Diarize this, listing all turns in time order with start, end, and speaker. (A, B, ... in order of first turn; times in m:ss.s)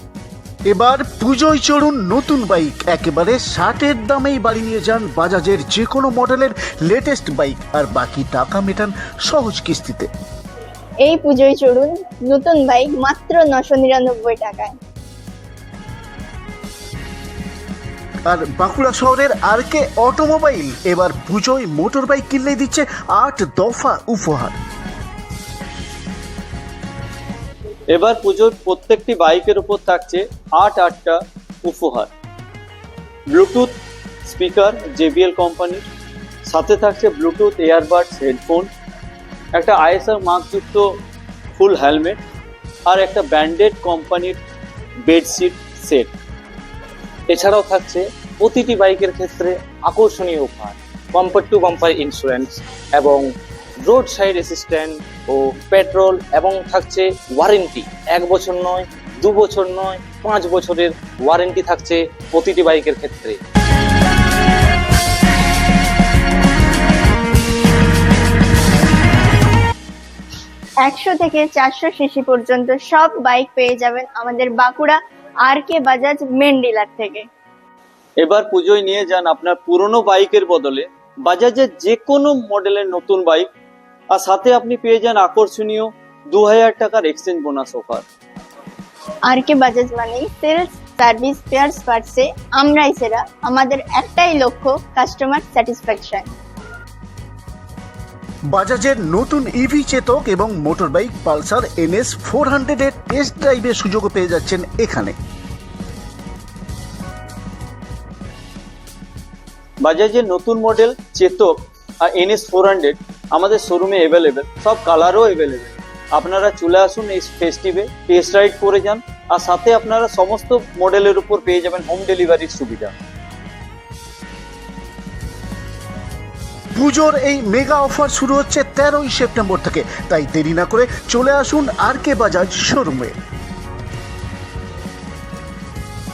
0:00.7-0:10.1 A
0:11.0-0:14.8 B
0:18.3-0:24.6 A
0:27.9-0:32.1 C
0:33.3-0:33.7 C
0:34.2-0:35.9 C
0:36.5-0:38.7 C
0:39.5-0:40.8 C
0:41.6-0:42.2 C
0:42.9-0:44.4 C
0:45.0-0:46.1 C
0:47.3-0:53.2 D
0:53.9-1:03.4 D
1:10.8-1:17.3 B
1:18.2-1:23.5 C
1:24.1-1:28.0 C
1:29.3-1:36.3 B
1:38.5-1:45.1 A
1:49.8-2:02.9 C
2:06.7-2:13.1 A